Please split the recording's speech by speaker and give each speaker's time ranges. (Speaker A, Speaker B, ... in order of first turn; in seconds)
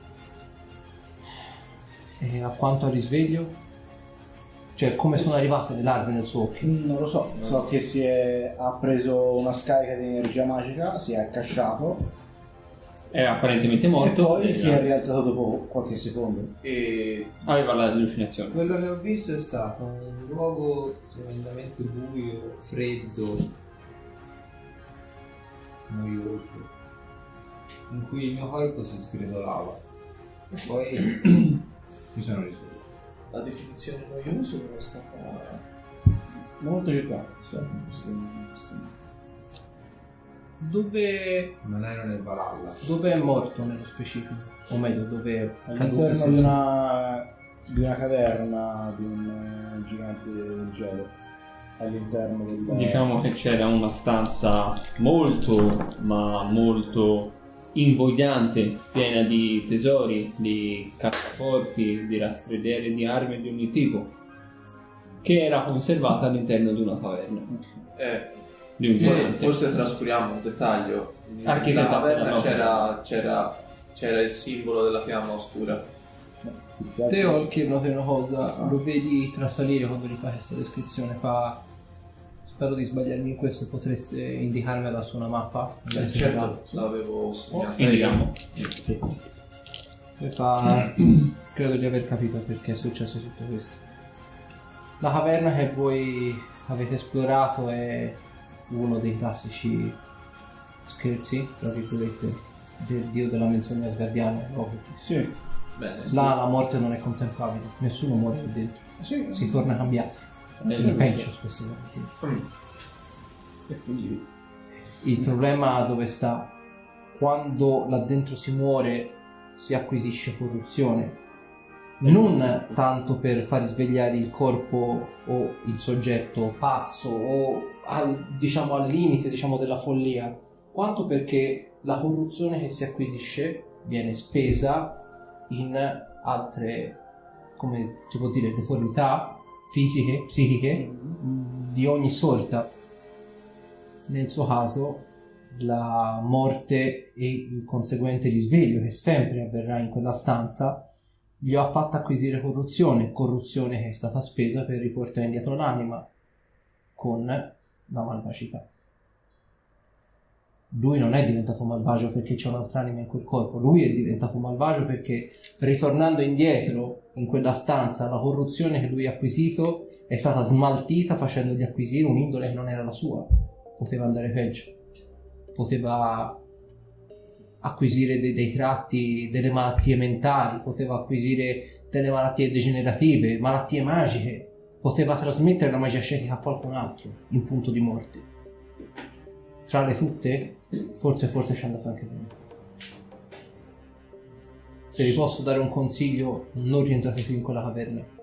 Speaker A: 2.2-3.6, 4.7-6.7, 40.6-41.6, 42.8-46.6, 69.0-69.3, 77.1-81.7, 82.6-86.8, 90.2-93.8, 95.0-100.0, 100.8-105.2, 106.0-112.1, 115.0-116.5, 117.1-121.2, 122.0-137.0, 137.6-142.7, 144.1-150.9, 151.4-156.1, 156.9-158.7, 160.7-174.7, 175.5-176.4, 177.6-188.2, 189.7-192.3, 194.9-198.1
Speaker B: 6.6-12.1, 13.9-16.5, 36.6-38.9, 45.6-51.2, 51.8-53.0, 76.4-77.4, 105.0-105.3, 109.0-109.7, 110.6-111.1, 140.7-141.2
Speaker C: 13.1-14.8, 17.4-18.6, 52.7-64.1, 65.2-67.5, 68.8-69.6, 71.4-72.8, 87.5-88.7, 110.7-111.2
Speaker D: 16.6-17.4, 33.3-35.6, 68.0-68.4, 68.9-75.9, 85.9-88.3, 105.8-106.3, 112.2-112.5, 113.7-114.2
Speaker E: 18.5-23.5, 25.9-26.7, 27.9-29.8, 30.5-32.8, 41.6-42.8